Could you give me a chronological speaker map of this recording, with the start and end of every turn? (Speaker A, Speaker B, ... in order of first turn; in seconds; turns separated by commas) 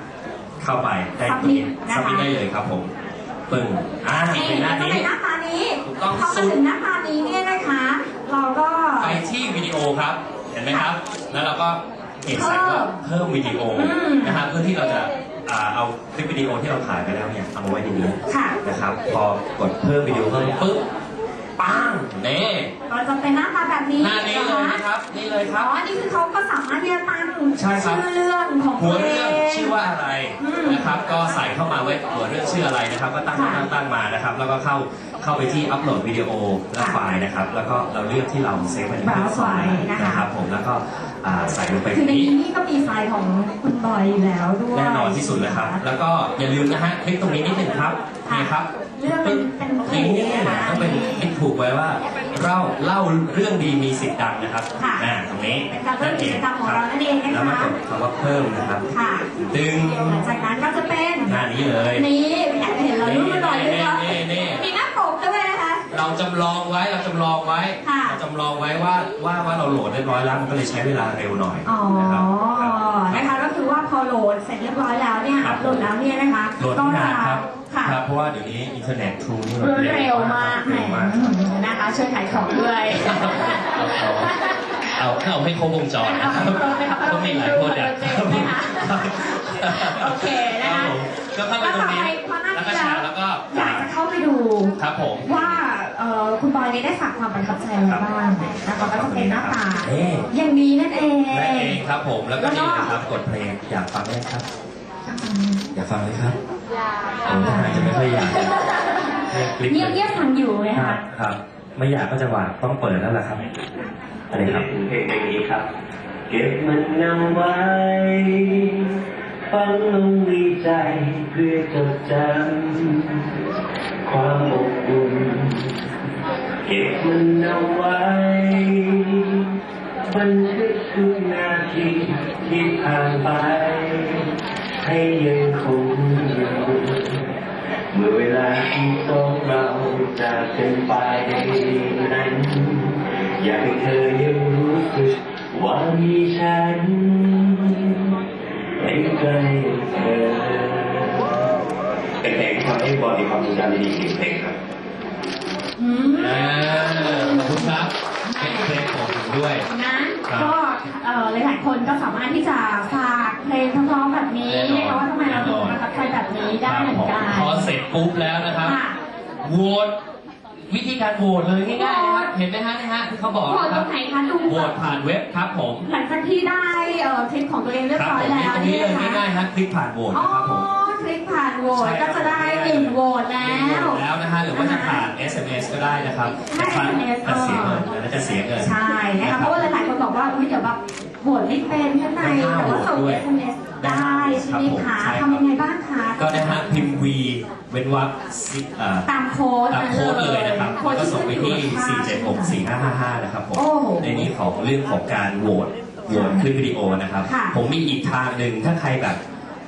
Speaker A: 0.6-2.9, Speaker B: 1.2-2.3, Speaker A: 3.5-5.1, Speaker B: 4.3-9.2, Speaker A: 5.8-6.6, Speaker A: 9.0-20.8, Speaker B: 12.3-13.0, Speaker B: 13.7-14.4, Speaker B: 18.3-18.6, Speaker A: 21.6-22.7, Speaker B: 22.9-24.8, Speaker A: 24.0-25.7, Speaker B: 25.5-29.8, Speaker A: 27.6-28.0, Speaker A: 28.8-42.3, Speaker B: 30.4-30.9, Speaker B: 33.3-33.7, Speaker B: 39.0-40.2, Speaker B: 41.9-45.8, Speaker A: 44.7-58.8, Speaker B: 48.2-51.3, Speaker B: 54.8-55.0, Speaker B: 55.7-57.7, Speaker B: 58.9-59.4, Speaker A: 59.5-60.2, Speaker B: 60.0-61.3, Speaker A: 61.2-62.1, Speaker B: 61.9-65.8, Speaker A: 63.0-64.6, Speaker A: 65.9-73.4, Speaker B: 67.8-68.2, Speaker B: 71.6-78.0, Speaker A: 75.4-75.8, Speaker A: 76.6-81.3, Speaker B: 79.6-84.6, Speaker A: 82.9-84.3, Speaker A: 85.0-93.9, Speaker B: 86.0-91.0, Speaker B: 91.5-101.8, Speaker A: 94.8-95.6, Speaker A: 98.6-100.3, Speaker A: 101.3-104.4, Speaker B: 102.4-102.9, Speaker B: 105.1-105.7, Speaker A: 105.7-106.3, Speaker B: 107.2-111.0, Speaker A: 107.3-108.6, Speaker A: 109.3-113.5, Speaker A: 114.3-114.7, Speaker C: 114.3-115.7, Speaker C: 116.3-123.4, Speaker C: 124.0-125.8, Speaker C: 126.6-129.5, Speaker C: 130.1-137.3, Speaker C: 137.9-148.1, Speaker C: 148.8-151.4, Speaker C: 152.2-154.6, Speaker B: 155.8-158.8, Speaker A: 156.2-159.7, Speaker B: 159.7-167.7, Speaker A: 160.3-160.5, Speaker A: 164.4-165.8, Speaker A: 166.6-168.8, Speaker B: 168.6-169.0, Speaker A: 169.4-170.0, Speaker A: 170.7-173.9, Speaker B: 171.7-172.3, Speaker B: 173.4-174.8, Speaker A: 174.4-175.9, Speaker B: 175.8-179.2, Speaker A: 177.9-180.7, Speaker B: 180.1-185.1, Speaker A: 181.7-189.7, Speaker B: 186.5-187.8, Speaker B: 188.6-197.1, Speaker A: 192.2-193.2, Speaker A: 193.8-195.4, Speaker A: 196.2-199.1, Speaker B: 199.0-202.6, Speaker A: 199.7-209.2, Speaker B: 203.5-204.3, Speaker B: 206.1-206.4, Speaker B: 207.2-207.5